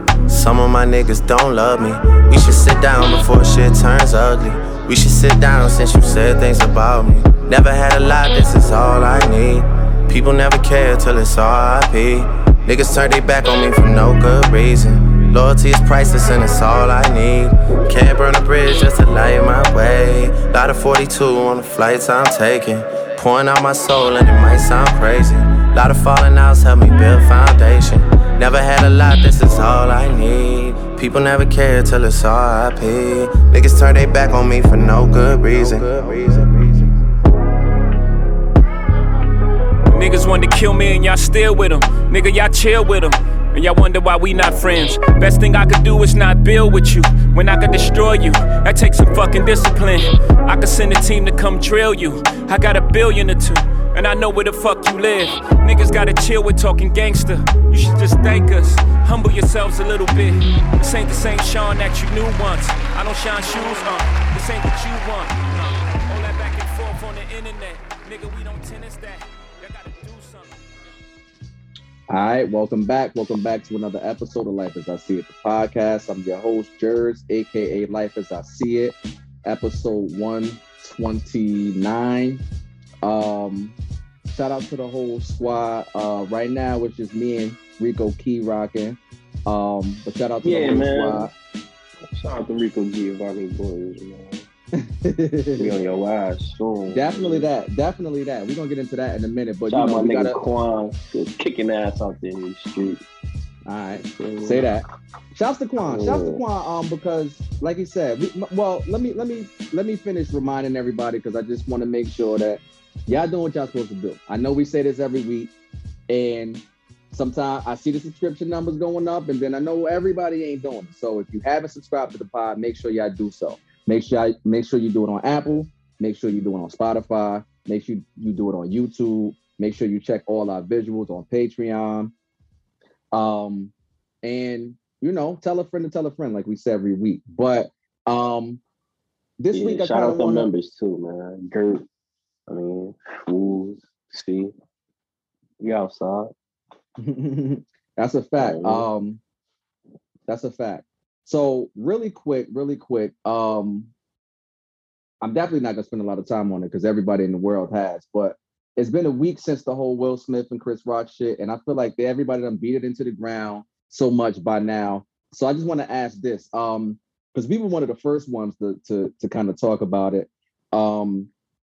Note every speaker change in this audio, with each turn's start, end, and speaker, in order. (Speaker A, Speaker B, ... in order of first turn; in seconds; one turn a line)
Speaker A: 0.3-36.9
Speaker B: 39.9-70.5
Speaker C: 72.1-82.4
Speaker C: 83.0-83.8
Speaker C: 84.3-91.3
Speaker D: 90.4-91.3
Speaker D: 92.1-94.5
Speaker C: 94.8-95.8
Speaker D: 95.6-97.5
Speaker C: 96.9-100.4
Speaker D: 99.7-103.0
Speaker C: 103.7-115.5
Speaker D: 104.2-104.7
Speaker D: 105.8-106.4
Speaker C: 116.1-132.1
Speaker C: 133.1-138.6
Speaker C: 139.4-140.5
Speaker D: 139.5-141.9
Speaker D: 142.5-144.5
Speaker D: 145.6-146.3
Speaker C: 147.0-149.2
Speaker D: 148.4-148.9
Speaker C: 150.3-153.9
Speaker C: 155.2-171.3